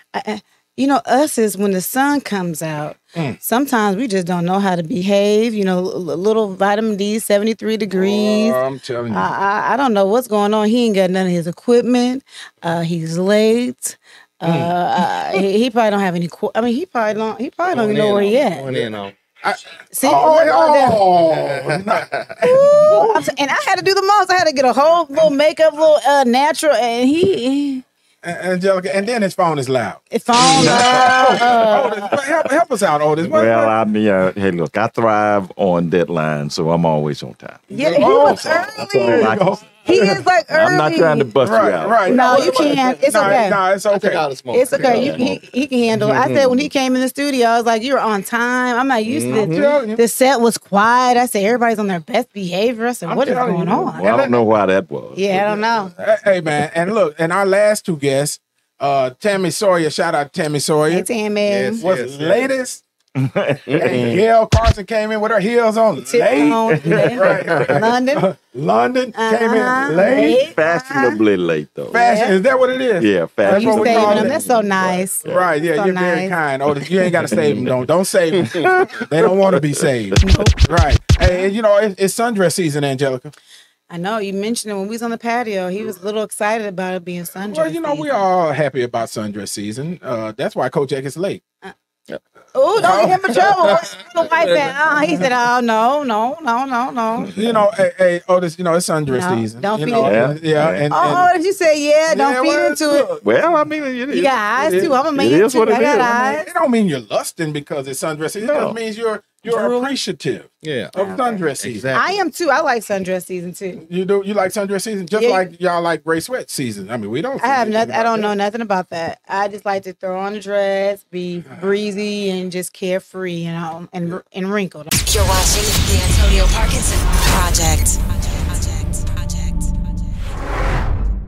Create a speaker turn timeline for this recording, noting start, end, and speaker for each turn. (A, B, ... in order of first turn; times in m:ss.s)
0:00.1-0:08.6 A
0:07.9-0:09.3 B
0:09.1-0:18.9 A
0:14.4-0:14.7 B
0:17.7-0:19.1 C
0:19.4-0:23.2 B
0:19.9-0:21.0 A
0:21.3-0:22.3 C
0:22.4-0:27.8 A
0:28.2-0:33.7 B
0:30.1-0:31.9 A
0:30.5-0:31.9 D
0:30.6-0:31.7 C
0:33.2-0:39.6 D
0:37.7-0:38.6 C
0:37.7-0:41.3 A
0:37.8-0:40.2 B
0:40.5-0:42.5 D
0:41.4-0:44.2 B
0:42.0-0:43.6 A
0:42.0-0:45.4 C
0:44.5-0:54.0 A
0:44.8-0:45.2 D
0:45.9-0:46.7 C
0:49.1-0:49.7 C
0:49.3-0:50.0 B
0:53.0-0:54.5 B
0:53.2-0:55.5 D
0:55.2-0:55.9 A
0:55.9-1:01.1 B
1:00.9-1:01.8 A
1:01.4-1:02.5 C
1:01.8-1:02.8 B
1:03.2-1:04.2 D
1:03.7-1:04.2 C
1:03.8-1:10.5 B
1:06.0-1:08.3 A
1:06.7-1:07.9 D
1:09.1-1:11.2 A
1:10.1-1:12.0 D
1:11.9-1:23.3 B
1:11.9-1:12.4 A
1:13.0-1:14.4 D
1:13.4-1:16.3 A
1:14.1-1:14.7 C
1:15.2-1:15.5 D
1:17.3-1:17.6 D
1:20.2-1:20.5 A
1:23.9-1:28.1 A
1:27.3-1:31.4 B
1:32.5-1:37.3 A
1:32.8-1:33.8 B
1:32.8-1:35.1 C
1:37.2-1:37.6 D
1:37.3-1:41.3 B
1:39.1-1:40.4 A
1:40.0-1:41.2 D
1:40.9-1:43.1 A
1:42.1-1:43.2 B
1:43.2-1:46.3 D
1:44.1-1:46.5 A
1:44.6-1:44.9 B
1:46.0-1:51.9 B
1:48.4-1:48.8 D
1:49.4-1:49.9 A
1:50.6-1:52.3 C
1:51.9-1:53.8 A
1:53.8-1:58.3 B
1:55.2-1:55.5 A
1:57.4-2:04.9 A
2:05.0-2:10.3 E